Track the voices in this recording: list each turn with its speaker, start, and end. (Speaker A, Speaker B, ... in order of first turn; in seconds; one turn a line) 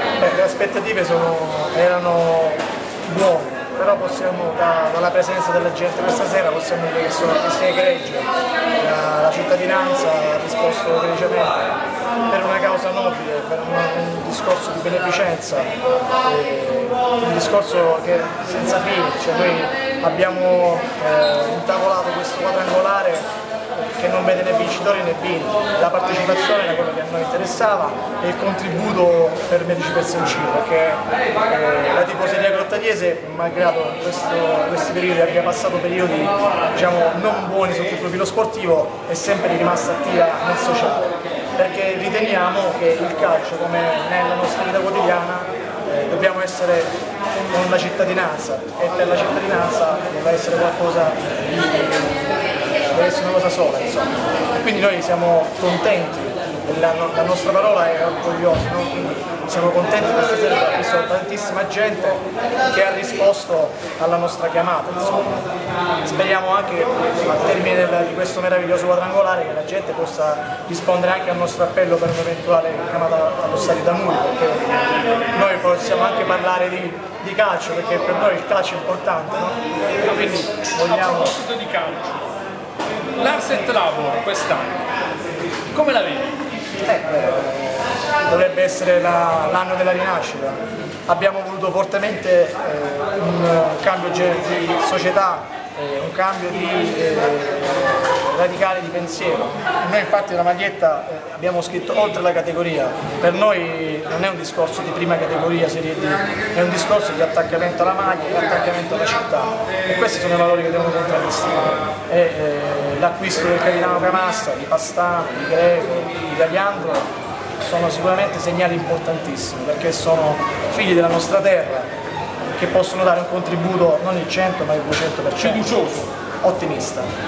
Speaker A: 0.2-11.7
Speaker A: 12.3-15.7
Speaker A: 16.2-46.9
Speaker A: 47.5-52.3
Speaker A: 52.9-65.4
Speaker A: 66.0-79.6
Speaker B: 80.0-82.3
Speaker A: 80.6-81.3
Speaker B: 83.2-84.8
Speaker B: 85.7-86.3
Speaker A: 86.8-117.1
Speaker A: 117.6-121.9
Speaker A: 122.5-127.1
Speaker B: 125.4-126.1